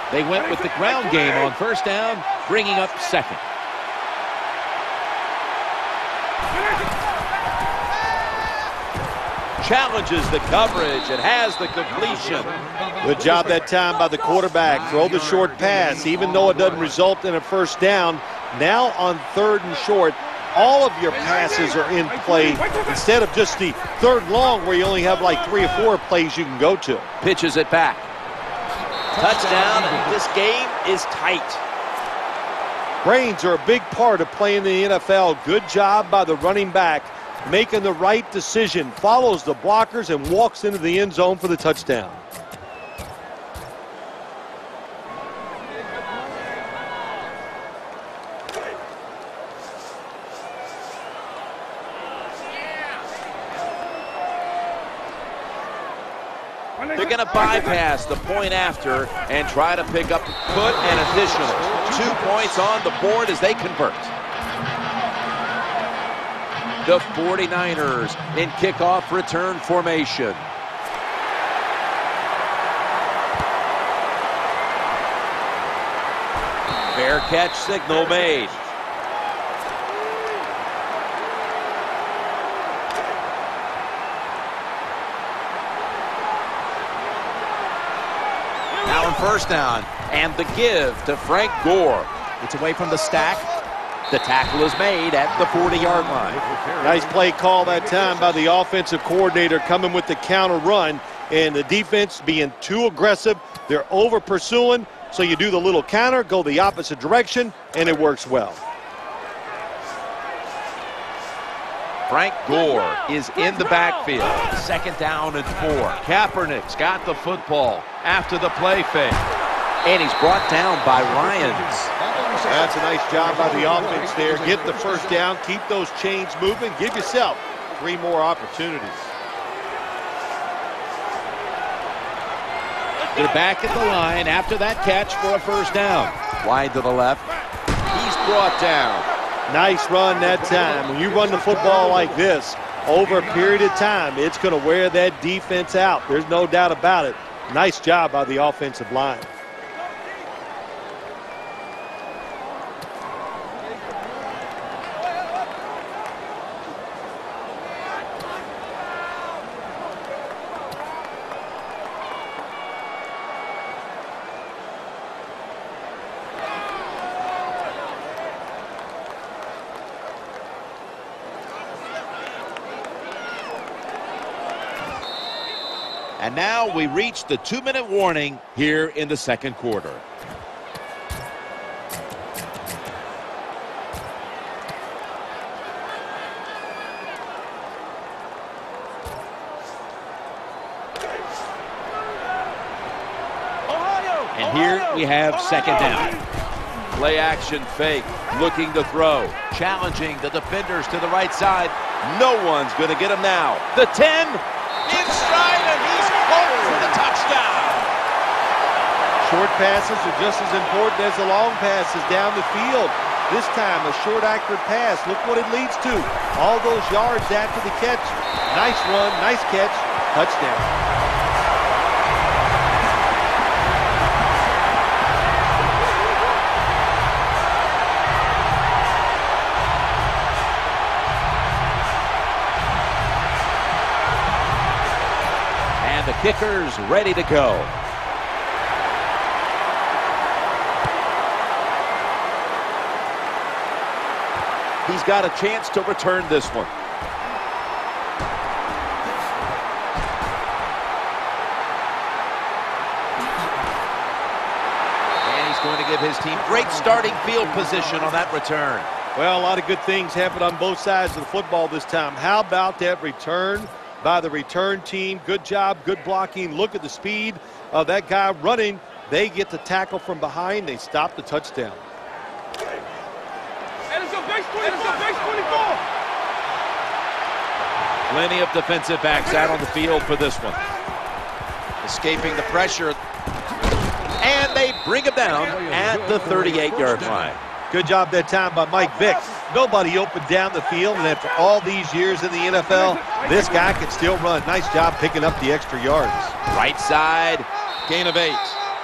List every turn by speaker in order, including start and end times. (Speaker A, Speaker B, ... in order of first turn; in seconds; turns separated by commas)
Speaker A: 0.1-3.4, Speaker A: 9.6-12.5, Speaker B: 13.0-27.1, Speaker A: 27.2-28.1, Speaker A: 29.1-31.6, Speaker B: 33.0-42.2, Speaker A: 56.9-64.1, Speaker A: 66.8-70.5, Speaker A: 76.9-78.6, Speaker A: 88.8-93.5, Speaker A: 94.1-96.5, Speaker B: 96.8-108.6, Speaker A: 112.1-119.2, Speaker A: 119.8-121.9, Speaker B: 122.4-129.1, Speaker A: 133.1-137.2, Speaker A: 137.9-139.1, Speaker B: 139.5-149.3, Speaker A: 176.2-180.0, Speaker A: 194.3-196.2, Speaker A: 196.9-207.9, Speaker B: 209.2-220.7, Speaker A: 235.8-237.7, Speaker A: 244.9-246.7, Speaker A: 255.2-258.9, Speaker B: 259.1-271.8, Speaker A: 278.1-280.6, Speaker A: 281.8-283.0, Speaker A: 284.2-287.4, Speaker B: 287.7-296.4, Speaker A: 296.5-298.6